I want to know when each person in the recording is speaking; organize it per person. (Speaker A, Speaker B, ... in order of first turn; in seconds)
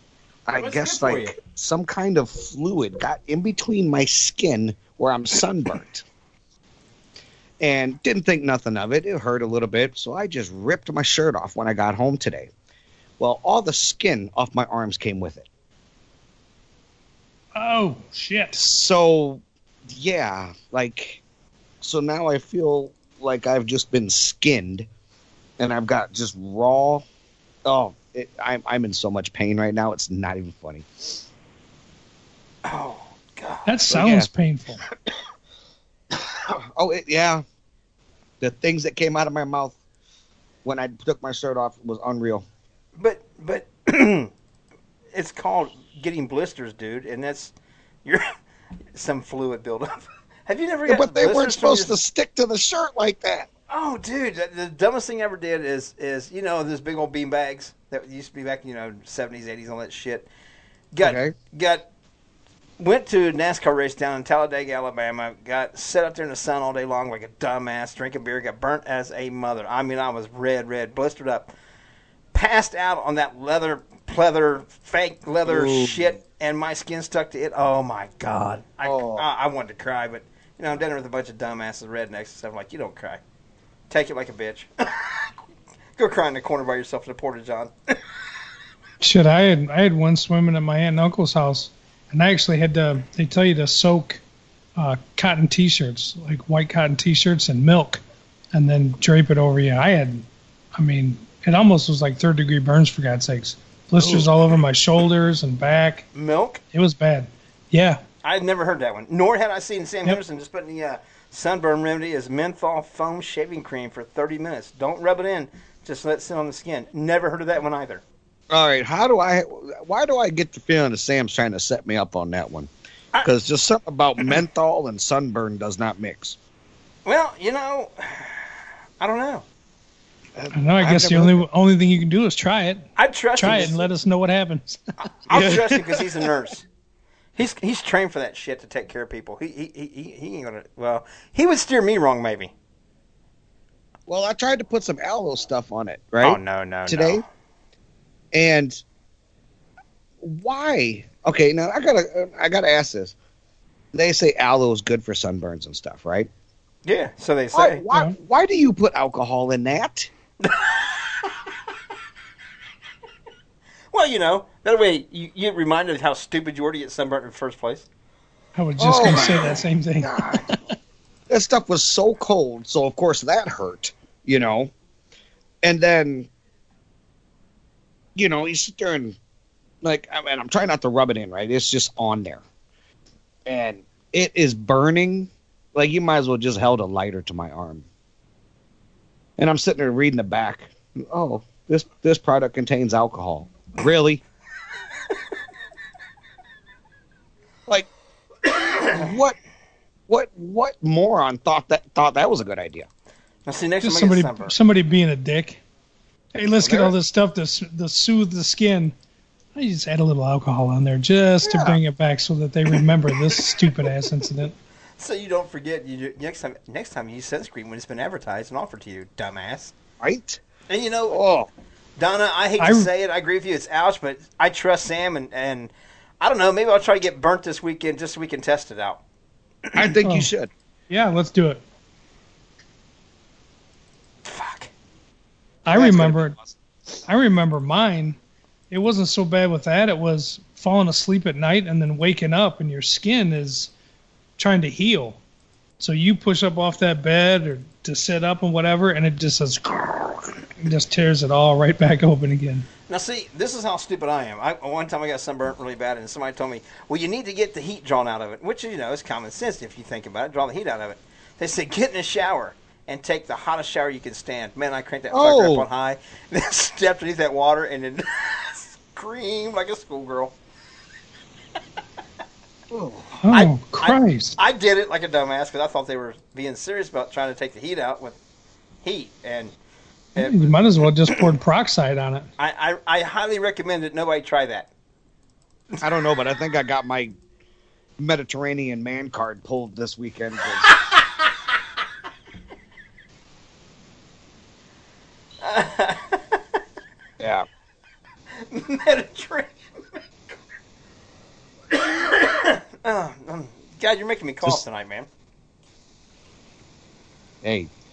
Speaker A: 0.5-6.0, 7.6-12.5, 13.2-15.4, 18.6-21.2, 21.8-24.9, 25.6-27.1, 27.6-31.2, 33.9-34.3, 36.1-37.4, 38.4-39.8, 40.6-42.4, 50.9-53.5, 61.0-61.3, 75.4-76.2, 78.8-79.2, 104.0-104.3, 118.5-122.7, 123.2-126.4, 130.3-131.4, 135.3-136.2, 144.1-147.2, 148.3-148.8, 150.2-153.1, 153.9-156.3, 157.5-160.1, 168.8-170.5, 171.3-174.7, 175.6-176.3, 178.2-179.2, 179.8-182.4, 183.5-187.9, 189.4-194.2, 198.8-199.4, 200.1-202.9, 206.6-206.9, 211.4-211.8, 220.0-220.4, 221.1-221.5, 229.8-230.5, 235.7-236.6, 265.1-265.7, 272.7-273.2, 285.8-287.1, 288.0-290.7, 297.2-297.5, 307.4-307.7
Speaker B: 0.6-1.4, 32.6-33.7, 43.0-44.3, 45.1-47.5, 48.9-52.0, 53.7-60.3, 60.9-61.9, 62.8-71.5, 72.3-83.2, 83.9-85.3, 86.0-87.7, 106.1-106.6, 108.2-118.0, 127.0-128.5, 129.0-129.5, 133.0-133.9, 135.1-136.6, 137.3-142.5, 146.2-147.2, 156.9-157.8, 160.4-161.1, 163.9-167.9, 203.5-204.5, 215.0-219.7, 220.7-221.2, 222.0-229.0, 234.2-234.7, 252.9-270.4, 273.3-278.2, 278.8-279.5, 280.1-280.6, 282.4-284.7, 295.4-296.4, 298.4-299.6, 301.7-305.1
Speaker C: 17.6-18.6, 33.6-34.8, 89.0-94.2, 94.8-98.0, 98.5-106.1, 106.7-108.0, 130.5-134.8, 168.6-170.6, 203.8-205.6, 206.3-208.9, 209.5-214.5, 222.6-222.9, 230.0-230.3, 230.9-231.6, 235.7-236.3, 237.1-238.2, 238.7-243.7, 244.4-245.2, 245.8-252.7, 273.2-274.4, 280.2-282.3